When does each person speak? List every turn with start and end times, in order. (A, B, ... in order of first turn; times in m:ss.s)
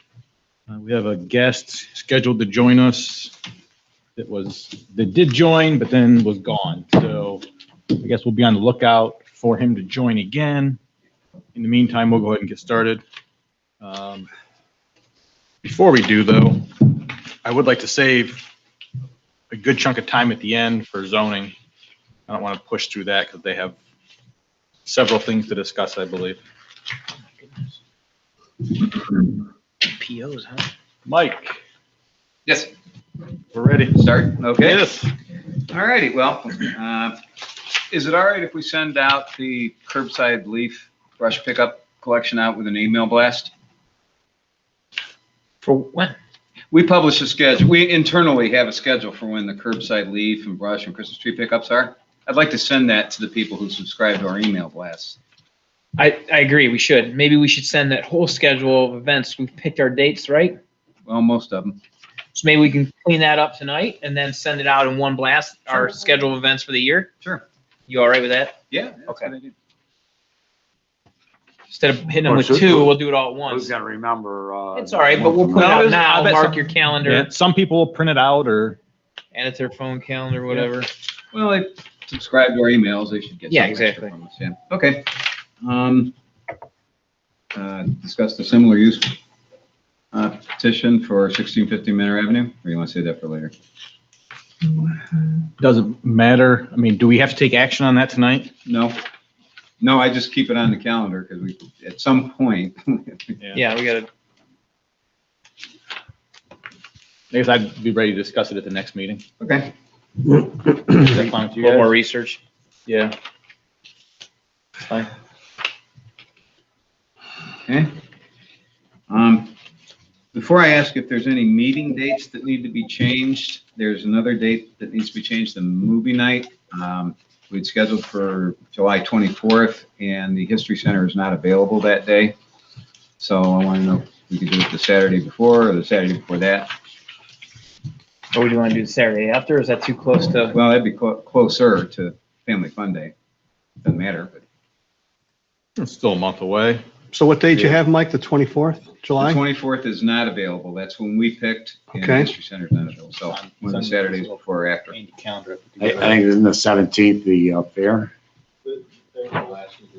0:00.7-0:03.3 A
0:04.2-0:07.4 A
0:07.9-0:10.8 A
0:11.5-0:13.0 A
0:13.8-0:14.3 A
0:15.6-0:18.5 A
0:19.5-0:21.5 A
0:22.3-0:23.8 A
0:24.8-0:26.4 A
0:29.8-0:30.7 B
0:31.0-0:31.6 A
0:32.5-0:32.7 C
0:33.5-0:34.0 A
0:33.9-0:34.8 C
0:34.6-0:35.1 A
0:35.7-0:37.2 C
0:37.9-0:43.5 C
0:45.6-0:46.1 B
0:46.7-0:55.2 C
0:56.0-1:00.6 B
1:01.0-1:01.8 C
1:02.3-1:07.1 B
1:07.9-1:09.3 B
1:08.7-1:09.5 C
1:11.7-1:13.7 B
1:12.2-1:15.8 D
1:14.7-1:17.3 B
1:15.5-1:18.8 A
1:19.3-1:20.9 B
1:21.3-1:26.1 C
1:23.5-1:24.1 B
1:27.5-1:29.2 C
1:30.1-1:33.5 C
1:35.6-1:38.5 A
1:38.6-1:39.0 C
1:39.8-1:43.4 C
1:43.5-1:44.1 B
1:47.3-1:49.2 A
1:49.4-1:49.7 C
1:50.9-1:51.9 A
1:51.6-1:52.4 B
1:52.8-1:53.1 A
1:54.8-1:55.1 B
1:59.1-1:59.5 C
2:00.3-2:12.3 C
2:13.2-2:16.7 C
2:18.3-2:20.6 B
2:20.5-2:23.1 C
2:23.8-2:24.4 C
2:25.8-2:26.8 A
2:27.1-2:29.4 E
2:29.2-2:35.0 C
2:31.9-2:32.3 E
2:33.3-2:36.2 A
2:35.8-2:38.1 D